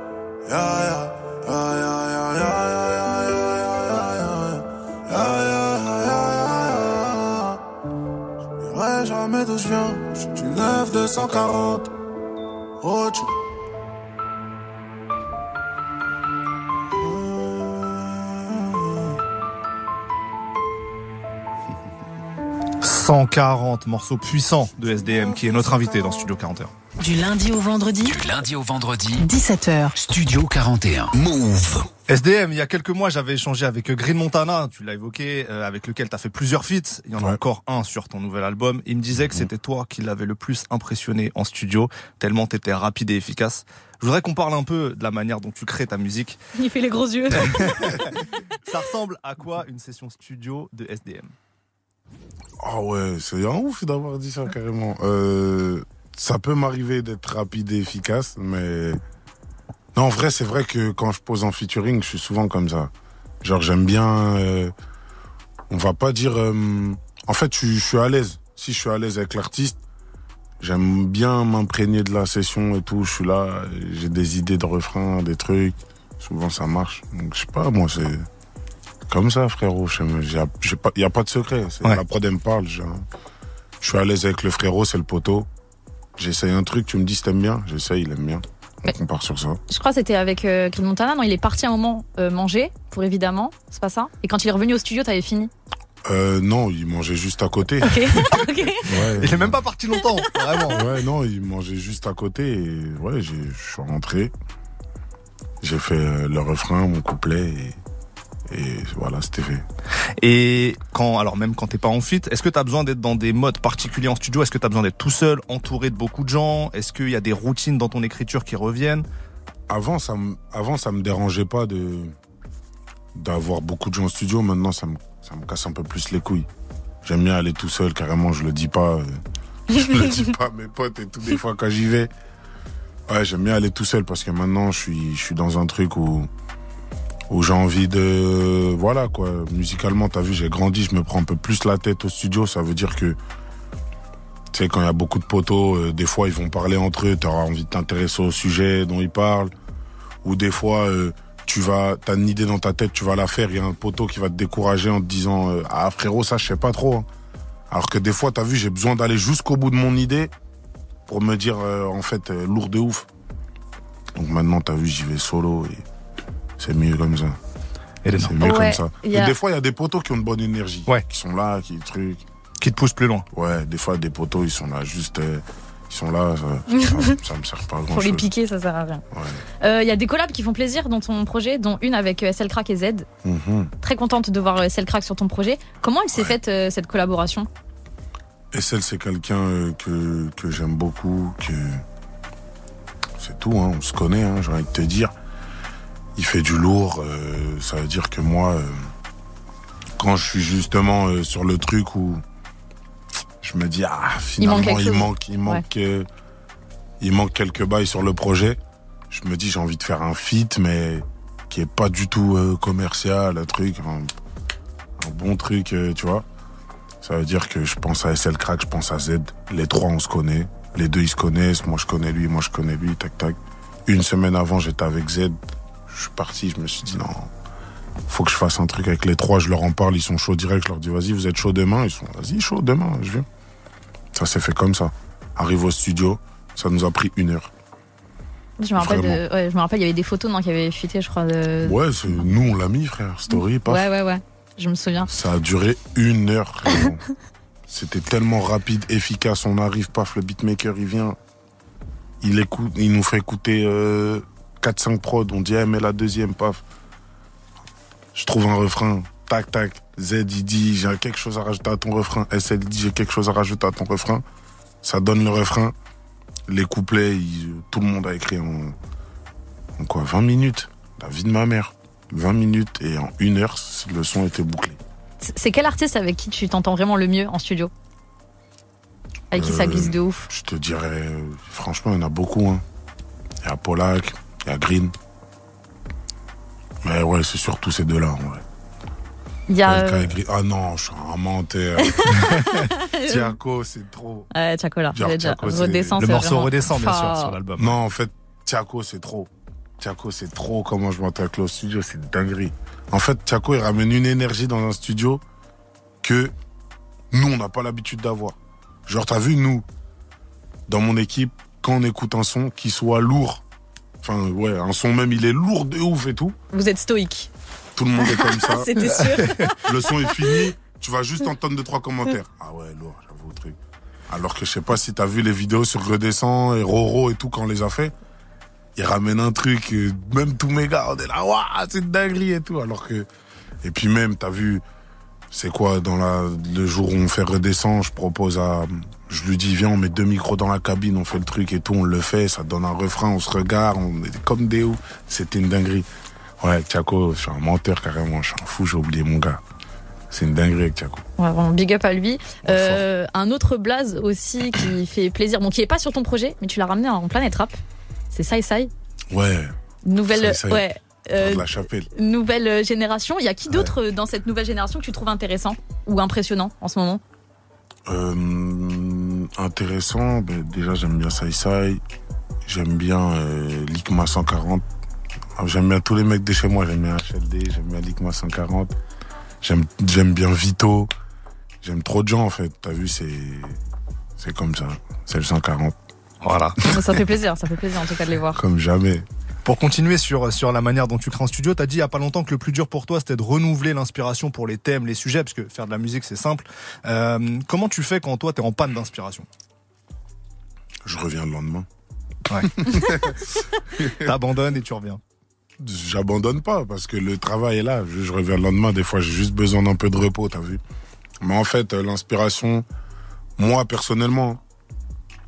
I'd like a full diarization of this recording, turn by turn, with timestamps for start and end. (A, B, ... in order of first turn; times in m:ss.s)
0:00.4-0:07.6 A
0:08.6-0:11.9 A
0:12.8-0:13.3 A
0:22.8-0:26.7 B
0:27.0-0:28.2 C
0:28.0-0:29.3 D
0:29.2-0:30.0 C
0:30.0-0:31.9 D
0:32.1-0:46.4 B
0:46.6-0:47.7 E
0:47.4-0:48.1 B
0:48.7-0:51.3 B
0:52.6-0:59.0 F
0:59.9-1:02.9 F
1:03.4-1:04.7 F
1:05.7-1:09.8 F
1:10.6-1:18.2 F
1:19.1-1:23.0 F
1:23.8-1:25.5 F
1:26.2-1:29.6 F
1:29.7-1:35.5 E
1:36.0-1:38.0 F
1:37.8-1:38.8 E
1:38.8-1:39.6 F
1:39.2-1:40.8 B
1:40.7-1:44.3 F
1:45.6-1:47.8 F
1:48.5-1:49.6 F
1:50.2-1:59.0 B
1:59.7-2:02.1 F
2:03.1-2:06.5 F
2:07.0-2:12.1 F
2:13.1-2:16.3 F
2:17.3-2:23.2 F
2:24.5-2:29.5 F
2:30.2-2:37.1 F
2:37.7-2:40.3 F
2:41.1-2:43.0 F
2:44.1-2:45.8 F
2:46.6-2:47.4 F
2:48.0-2:48.3 B
2:48.1-2:52.2 F
2:48.4-2:49.3 E
2:52.6-2:53.2 B
2:53.3-2:58.3 F
2:56.7-2:57.2 E
2:57.9-2:59.0 E
2:59.1-2:59.4 F
2:59.6-3:03.1 E
3:03.2-3:03.7 F
3:03.8-3:07.5 E
3:06.1-3:06.4 F
3:08.5-3:11.8 F
3:13.2-3:15.1 F
3:16.2-3:18.9 F
3:20.0-3:22.2 F
3:23.4-3:26.1 F
3:24.4-3:25.6 E
3:27.0-3:34.1 F
3:35.0-3:36.2 F
3:37.0-3:45.4 F
3:45.9-3:47.3 F
3:48.1-3:53.2 F
3:54.1-3:57.5 F
3:58.6-4:01.8 E
3:58.8-3:59.2 F
4:01.6-4:03.9 F
4:03.4-4:05.1 E
4:05.0-4:07.0 F
4:07.7-4:11.2 F
4:12.2-4:16.6 F
4:18.1-4:24.2 F
4:24.8-4:25.7 F
4:26.5-4:28.7 F
4:29.8-4:34.8 F
4:35.2-4:37.7 E
4:39.3-4:40.3 E
4:39.3-4:42.6 F
4:43.4-4:44.9 F
4:46.8-4:48.4 F
4:49.5-4:50.1 E
4:49.6-4:52.2 F
4:51.8-4:53.3 E
4:52.4-4:52.6 B
4:53.0-4:54.3 F
4:54.3-4:57.3 E
4:54.9-4:56.0 F
4:56.0-4:57.8 B
4:57.6-5:05.2 F
5:06.0-5:06.3 F
5:07.1-5:08.4 F
5:08.9-5:09.6 F
5:10.7-5:13.4 F
5:14.0-5:16.4 F
5:16.5-5:17.3 E
5:17.7-5:18.8 F
5:18.0-5:20.4 E
5:19.6-5:23.6 F
5:24.1-5:27.9 F
5:28.8-5:33.1 F
5:33.6-5:34.6 F
5:35.3-5:45.9 F
5:46.4-5:49.4 F
5:50.1-5:51.0 F
5:51.2-5:57.6 E
5:52.4-5:52.8 F
5:58.1-5:58.7 E
5:59.1-5:59.5 F
5:59.8-6:07.0 E
6:00.1-6:00.6 F
6:01.2-6:01.9 F
6:07.9-6:11.8 F
6:12.4-6:14.6 F
6:15.4-6:18.7 F
6:19.4-6:20.9 F
6:21.6-6:23.6 F
6:24.2-6:25.8 F
6:26.2-6:26.6 B
6:26.6-6:28.4 E
6:28.3-6:29.0 F
6:29.4-6:39.3 B
6:40.8-6:41.7 F
6:42.3-6:42.9 B
6:42.6-6:43.0 F
6:43.9-6:45.0 B
6:45.6-6:50.6 F
6:51.2-6:52.6 F
6:53.4-6:54.4 F